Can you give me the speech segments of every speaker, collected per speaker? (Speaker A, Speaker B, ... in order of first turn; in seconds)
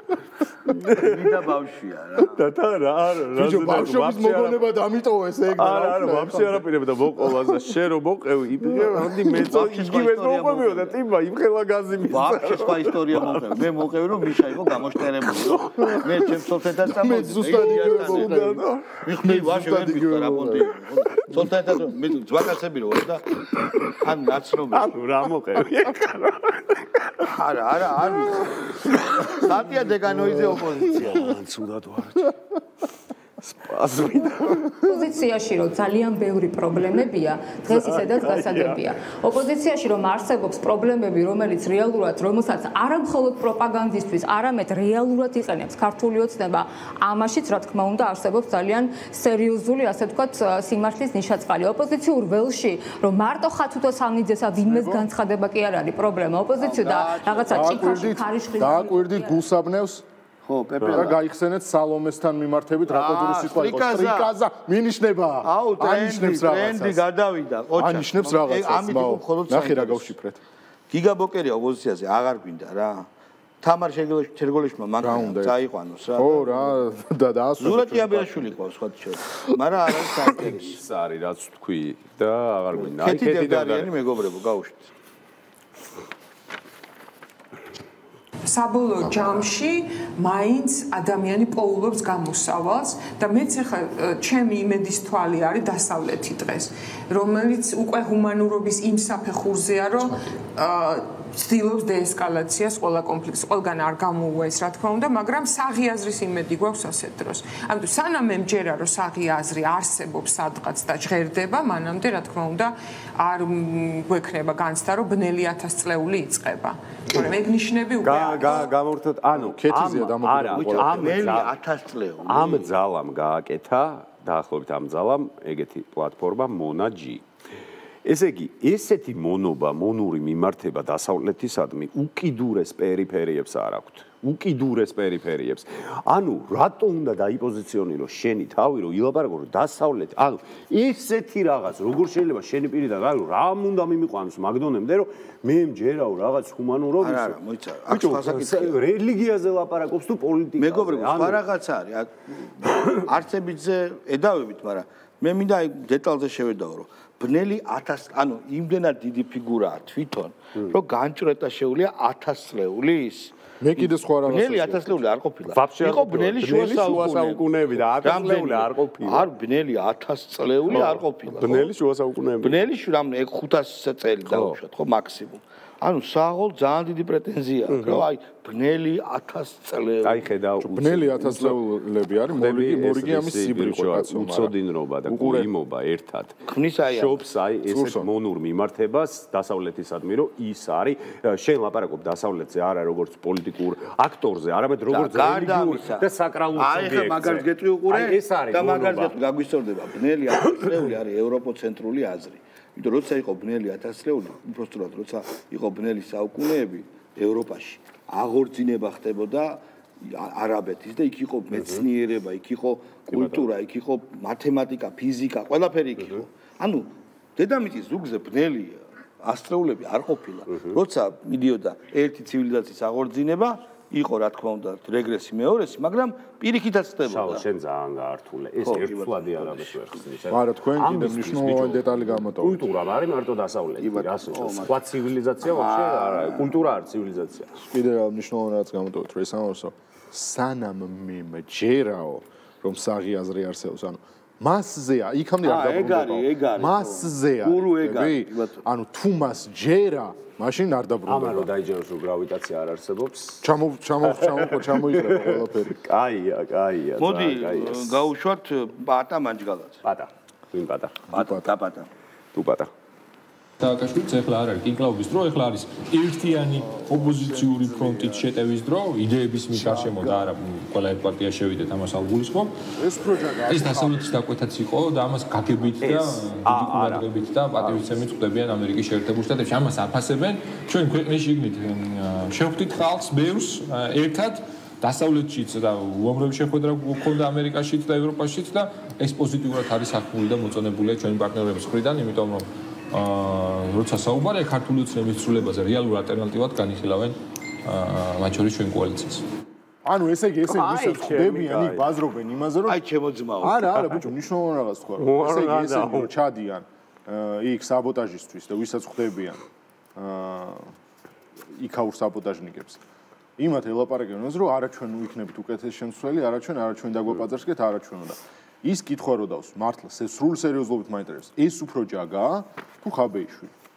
Speaker A: 0.7-1.4, 2.2-4.6, 5.5-13.6, 15.4-16.0, 17.6-18.9, 24.7-27.1, 30.9-32.3, 33.4-34.8, 37.7-38.8, 60.8-61.1, 80.4-83.9, 118.0-121.5, 122.2-127.2, 128.0-151.4, 165.5-169.3, 170.7-172.6, 174.2-174.6, 177.7-178.0, 180.0-181.6, 182.3-199.1, 213.1-213.5, 227.1-237.5, 251.1-253.4, 254.0-258.1, 259.8-261.0, 262.3-262.7, 275.8-278.1, 300.5-301.8, 305.0-306.1
Speaker B: 0.9-2.4, 9.3-11.0, 12.1-18.4, 19.0-24.9, 27.2-28.6, 29.4-31.4, 56.6-58.2, 60.5-61.2, 62.9-64.3, 65.4-70.1, 70.9-73.1, 73.6-76.8, 77.6-80.8, 82.7-84.9, 120.5-122.7, 147.0-148.8, 150.6-171.7, 172.4-180.2, 186.5-187.2, 194.9-227.4, 228.6-230.0, 233.8-234.8, 235.4-236.6, 245.4-248.6, 257.0-259.8, 261.1-261.9, 302.7-303.9
Speaker C: 3.3-6.7, 7.2-7.8, 8.7-9.3, 15.8-16.3, 16.8-21.1, 30.1-30.6, 54.5-55.0, 57.5-60.0, 60.9-67.0, 67.7-70.4, 75.0-75.6, 76.2-78.5, 119.3-121.3, 163.6-165.0, 180.6-184.5, 185.1-185.5, 187.7-188.1, 230.3-232.7, 237.7-251.5, 253.4-255.7, 261.1-261.5, 266.7-268.2, 269.5-270.3, 272.7-274.2, 299.8-302.8, 303.4-309.4, 309.9-310.7, 311.5-312.8, 313.4-323.5
Speaker D: 34.8-59.5
Speaker E: 88.5-118.7
Speaker F: 263.6-272.5, 273.4-299.2